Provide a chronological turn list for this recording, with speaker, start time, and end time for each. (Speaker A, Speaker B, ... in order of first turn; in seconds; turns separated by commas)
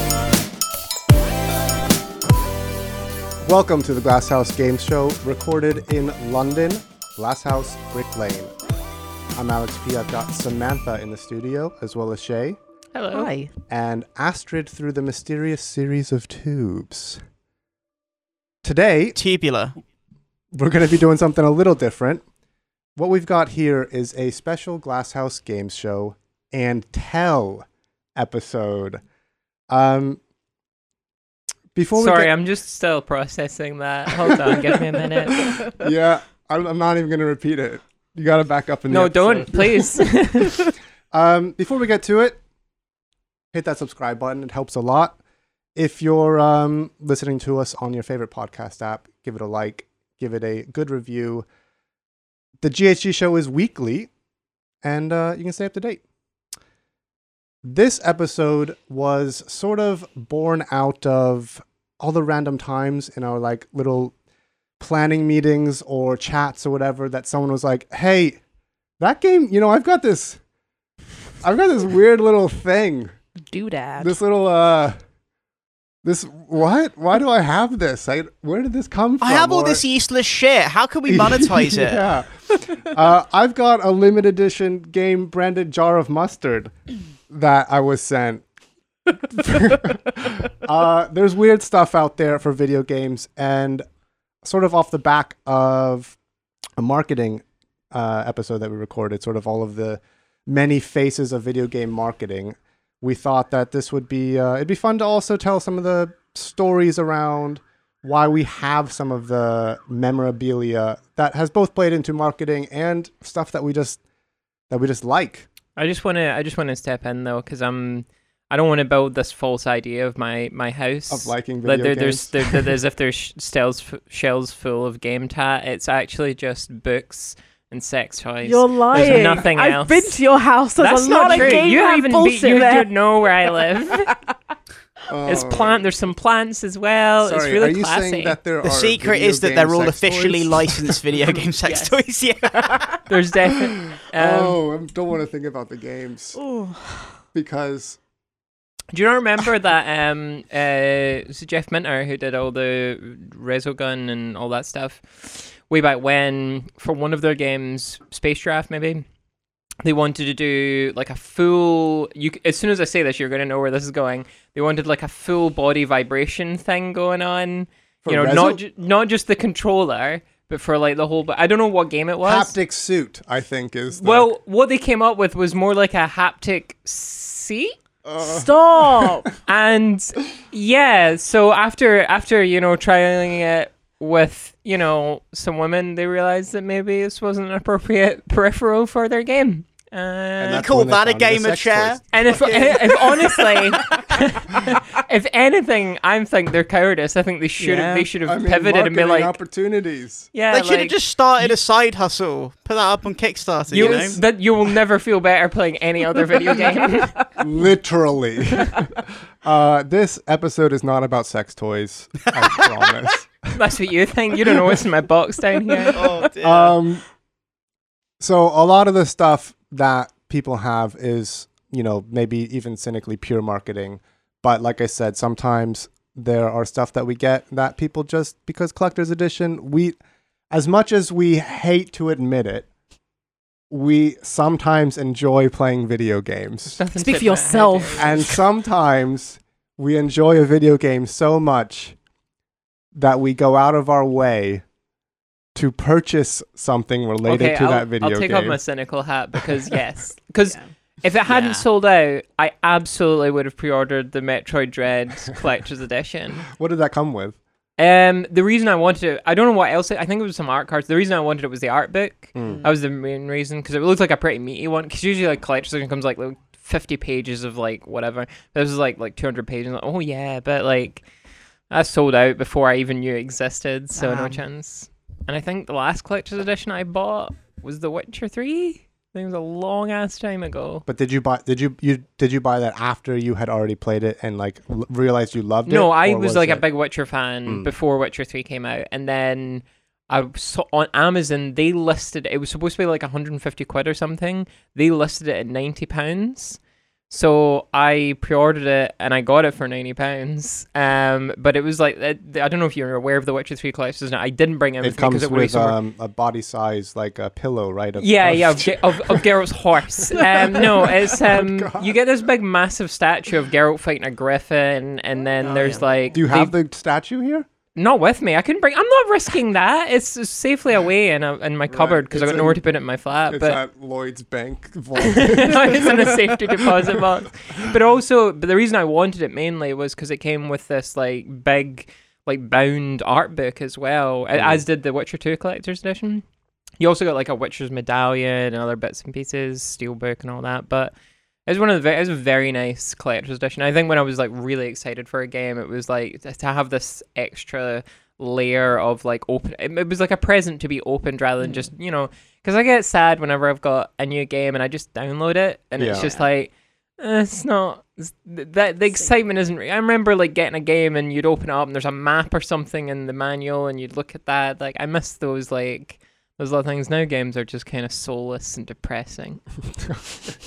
Speaker A: 3.4-8.5, Speaker A: 9.3-12.6, Speaker B: 12.9-13.3, Speaker C: 13.1-13.5, Speaker A: 13.7-17.2, Speaker A: 18.6-19.1, Speaker D: 19.1-19.7, Speaker A: 20.5-22.2, Speaker A: 22.9-29.0, Speaker A: 29.7-30.2, Speaker A: 31.7-32.3, Speaker B: 31.9-35.6, Speaker A: 35.6-40.0, Speaker B: 38.9-40.6, Speaker A: 41.1-42.4, Speaker A: 43.5-45.2, Speaker A: 45.7-51.4, Speaker A: 52.6-54.1, Speaker A: 54.8-56.0, Speaker A: 57.6-64.1, Speaker A: 64.8-68.4, Speaker A: 69.0-70.4, Speaker A: 71.4-73.1, Speaker C: 73.4-74.1, Speaker A: 74.0-75.0, Speaker A: 76.0-79.8, Speaker D: 79.2-82.0, Speaker A: 81.1-86.7, Speaker A: 87.3-88.4, Speaker A: 89.2-93.8, Speaker A: 94.4-96.2, Speaker A: 96.8-114.0, Speaker A: 114.7-115.5, Speaker B: 115.8-130.2, Speaker A: 121.1-122.7, Speaker C: 128.4-132.9, Speaker A: 129.0-129.4, Speaker B: 130.8-134.1, Speaker A: 135.1-135.9, Speaker B: 135.3-138.4, Speaker A: 137.2-140.9, Speaker D: 138.6-143.0, Speaker B: 141.6-142.0, Speaker B: 143.1-144.6, Speaker A: 143.8-146.4, Speaker C: 146.3-147.2, Speaker A: 147.3-148.0, Speaker B: 148.9-159.0, Speaker B: 159.8-172.5, Speaker A: 168.0-168.6, Speaker A: 172.2-174.3, Speaker B: 173.9-177.8, Speaker A: 178.0-179.1, Speaker C: 178.2-179.3, Speaker B: 179.4-190.7, Speaker A: 190.4-192.0, Speaker D: 190.5-193.7, Speaker B: 192.1-199.3, Speaker C: 197.6-198.1, Speaker A: 198.2-200.3, Speaker B: 200.3-201.6, Speaker D: 200.5-204.2, Speaker B: 203.7-207.2, Speaker C: 206.4-207.3, Speaker A: 207.4-213.5, Speaker D: 212.4-212.9, Speaker B: 213.5-216.0, Speaker D: 215.9-216.8, Speaker A: 216.4-217.0, Speaker A: 218.2-230.0, Speaker A: 230.5-232.7, Speaker A: 233.7-236.8, Speaker B: 236.8-238.2, Speaker C: 237.0-238.4, Speaker A: 237.9-241.9, Speaker A: 242.9-244.6, Speaker A: 245.5-248.6, Speaker B: 247.2-256.4, Speaker D: 251.2-251.6, Speaker A: 256.5-257.4, Speaker B: 257.8-271.0, Speaker A: 262.3-262.6, Speaker B: 271.7-280.8, Speaker D: 274.0-274.4, Speaker A: 280.9-286.6, Speaker B: 285.6-305.8, Speaker A: 287.4-287.7, Speaker A: 304.8-309.2, Speaker B: 308.0-316.5, Speaker A: 310.0-311.9, Speaker D: 315.4-315.8, Speaker A: 316.1-317.5, Speaker B: 317.7-323.6, Speaker A: 321.7-322.6, Speaker A: 323.3-326.3, Speaker B: 325.0-336.2, Speaker A: 334.3-334.6, Speaker B: 336.8-340.9, Speaker B: 341.4-369.5, Speaker C: 351.4-351.7, Speaker A: 355.8-356.1